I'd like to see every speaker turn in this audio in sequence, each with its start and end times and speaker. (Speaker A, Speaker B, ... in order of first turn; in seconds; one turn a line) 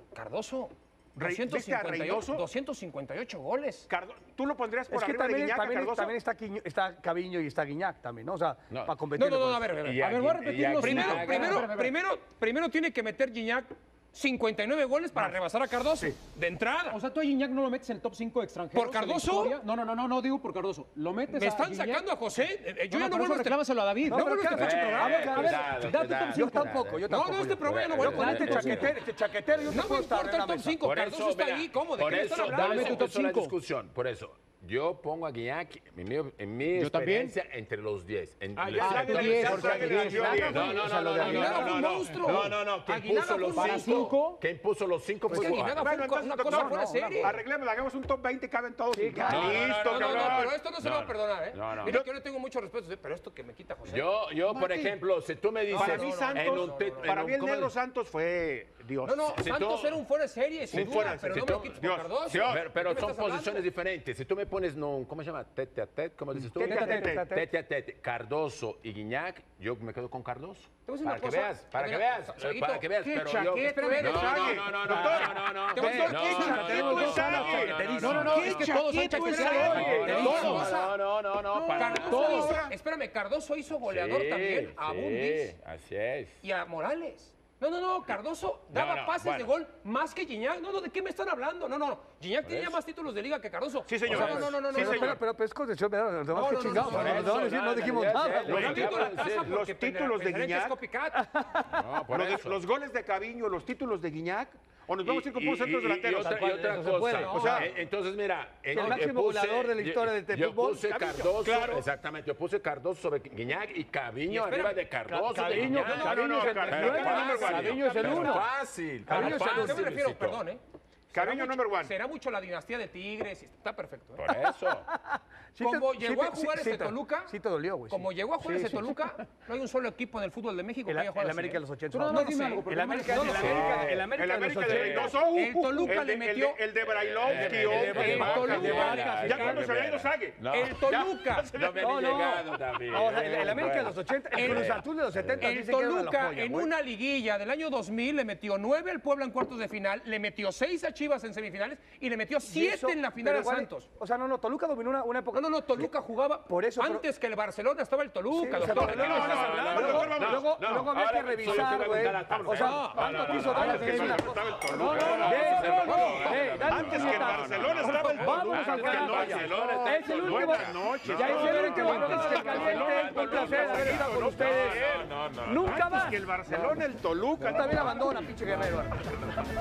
Speaker A: 0.1-3.9
Speaker B: 1.1-2.4
Speaker B: 3.9-6.2
Speaker C: 4.9-9.7
Speaker D: 8.7-8.9
Speaker A: 9.2-17.0
Speaker D: 9.8-11.7
Speaker E: 10.0-11.9
Speaker E: 16.9-22.0
Speaker A: 18.7-19.6
Speaker A: 21.3-25.4
Speaker E: 22.9-24.5
Speaker C: 24.1-30.8
Speaker D: 24.5-29.8
Speaker E: 25.1-26.8
Speaker A: 27.1-28.7
Speaker E: 28.0-28.9
Speaker A: 29.7-33.1
Speaker D: 30.8-46.1
Speaker B: 32.1-32.4
Speaker E: 32.4-33.5
Speaker E: 36.7-37.4
Speaker B: 38.6-40.7
Speaker E: 38.6-40.5
Speaker C: 39.2-41.8
Speaker A: 41.2-44.1
Speaker B: 41.3-42.4
Speaker E: 43.5-44.4
Speaker A: 45.3-47.4
Speaker B: 45.8-50.5
Speaker C: 46.5-47.4
Speaker C: 48.9-49.7
Speaker D: 49.2-52.0
Speaker A: 49.4-54.1
Speaker B: 51.8-52.1
Speaker D: 53.9-57.7
Speaker A: 55.7-57.2
Speaker B: 55.7-59.4
Speaker A: 59.0-63.6
Speaker D: 59.3-60.0
Speaker D: 60.7-82.6
Speaker B: 60.7-62.7
Speaker B: 66.4-67.3
Speaker C: 66.5-67.5
Speaker A: 70.8-81.0
Speaker B: 74.0-77.9
Speaker C: 74.8-75.3
Speaker C: 75.9-80.7
Speaker E: 78.0-80.3
Speaker B: 79.1-80.8
Speaker E: 81.5-82.6
Speaker A: 81.7-85.5
Speaker B: 82.1-82.7
Speaker D: 83.8-86.4
Speaker A: 86.4-95.2
Speaker D: 88.7-89.5
Speaker D: 92.4-92.8
Speaker B: 93.8-95.2
Speaker D: 94.0-94.6
Speaker C: 94.2-98.9
Speaker A: 96.3-101.3
Speaker D: 96.6-99.6
Speaker B: 97.0-97.2
Speaker B: 98.5-100.8
Speaker C: 101.1-101.8
Speaker D: 101.7-102.7
Speaker B: 102.1-106.5
Speaker D: 105.0-120.4
Speaker C: 106.1-107.6
Speaker A: 107.1-107.7
Speaker B: 107.3-107.7
Speaker C: 108.7-111.2
Speaker B: 110.9-111.9
Speaker A: 114.3-114.8
Speaker C: 115.1-118.5
Speaker A: 115.4-118.3
Speaker B: 115.8-118.5
Speaker C: 119.0-119.9
Speaker A: 119.1-124.2
Speaker B: 121.1-121.9
Speaker D: 124.2-124.9
Speaker C: 124.2-128.8
Speaker A: 125.6-127.3
Speaker A: 127.9-133.4
Speaker C: 130.8-135.9
Speaker E: 131.9-133.6
Speaker D: 133.1-135.2
Speaker B: 133.3-141.8
Speaker A: 135.1-136.6
Speaker D: 136.8-145.5
Speaker C: 137.3-139.6
Speaker A: 137.4-139.6
Speaker A: 140.4-141.5
Speaker C: 141.8-146.7
Speaker A: 144.3-144.8
Speaker A: 145.4-153.9
Speaker C: 152.4-155.9
Speaker A: 155.3-160.1
Speaker C: 156.5-157.0
Speaker C: 158.3-174.8
Speaker D: 158.6-176.8
Speaker B: 158.6-178.2
Speaker A: 162.5-163.0
Speaker E: 163.5-164.3
Speaker A: 164.9-166.4
Speaker A: 167.7-169.1
Speaker E: 171.3-172.6
Speaker C: 175.4-176.2
Speaker C: 177.4-179.2
Speaker D: 177.5-179.3